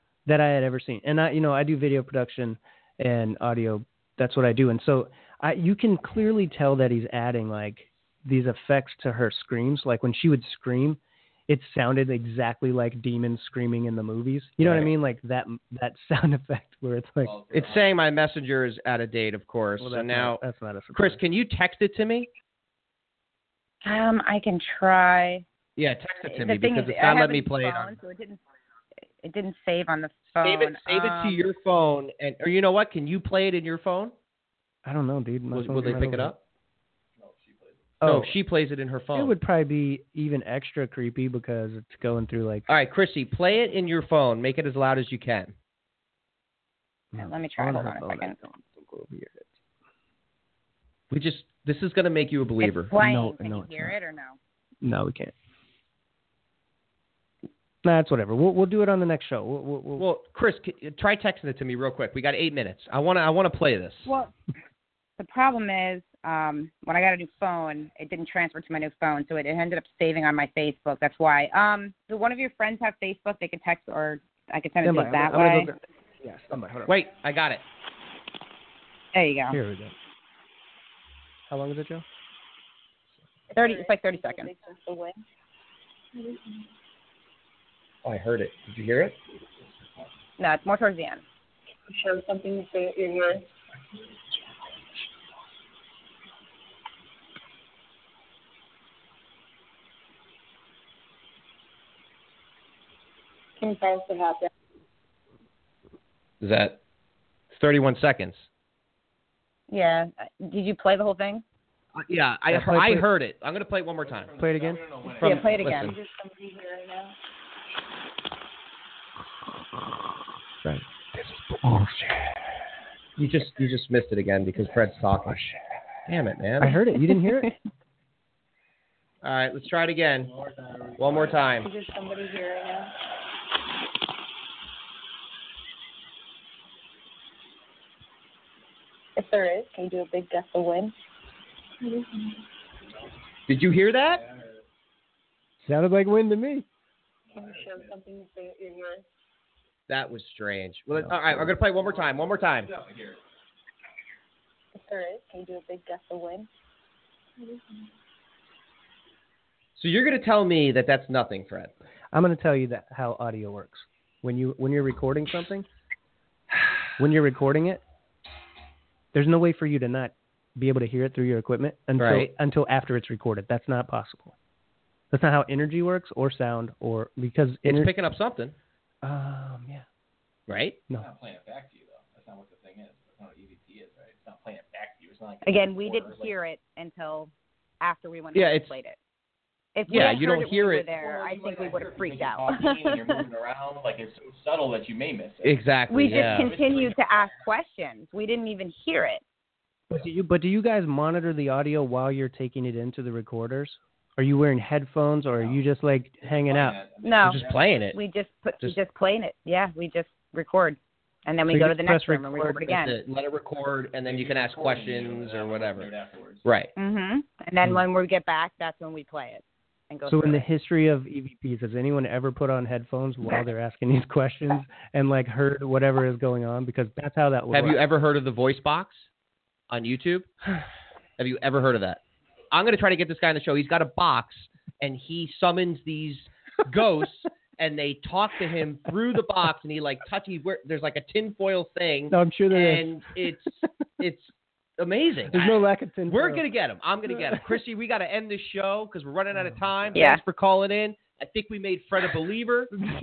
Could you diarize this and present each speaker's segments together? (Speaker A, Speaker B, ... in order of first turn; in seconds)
Speaker A: 0.3-17.3, 19.8-21.2, 34.9-36.3, 38.0-38.4, 39.1-42.7, 47.1-49.6, 53.0-54.0, 54.8-55.3, 57.8-60.1, 74.8-77.0, 79.5-80.0, 81.5-82.0, 112.5-113.1, 114.4-115.4, 121.1-122.4, 126.6-127.5, 145.6-146.7, 162.1-165.7, 167.0-167.8, 169.1-174.3, 175.1-177.9, 179.0-179.9, 199.9-206.8, 211.5-212.7, 220.1-227.8, 242.1-243.7, 245.3-246.4, 249.3-250.0
Speaker B: 14.6-14.9, 17.5-22.3, 25.8-28.0, 30.4-34.1, 35.5-36.4, 38.0-39.3, 42.7-45.5, 51.1-52.9, 60.0-64.1, 76.9-77.6, 88.0-89.2, 106.4-106.8, 107.5-108.5, 112.0-114.3, 115.6-116.0, 123.2-125.4, 126.1-126.8, 129.2-130.3, 131.0-131.7, 143.5-144.2, 149.9-152.7, 159.8-161.7, 172.0-172.3, 177.7-178.6, 180.5-180.8, 188.3-188.8, 189.9-190.9, 195.4-196.5, 207.2-208.0, 212.7-215.9, 216.4-216.7, 227.5-229.1, 229.7-230.3, 231.2-252.7
Speaker C: 17.2-17.9, 37.2-38.0, 114.0-115.5, 130.2-131.6, 143.8-144.6, 147.3-148.0, 151.5-153.2, 180.9-186.3, 190.9-197.4, 206.2-208.0, 214.0-216.4
Speaker D: 23.8-25.4, 26.3-28.4, 29.2-31.4, 47.2-48.4, 52.6-54.4, 64.0-64.3, 65.2-75.7, 79.1-79.6, 83.5-84.5, 90.4-91.2, 109.7-111.4, 115.2-115.9, 185.4-189.0, 189.8-193.2, 195.9-199.2, 207.0-207.4, 207.9-212.9, 216.8-220.5, 249.9-250.2
Speaker E: 83.5-85.2, 86.1-86.7, 91.9-93.4, 103.6-104.5, 115.5-117.2, 131.6-132.9, 139.2-140.9, 141.8-142.5, 147.3-149.0, 154.7-156.5, 157.4-157.9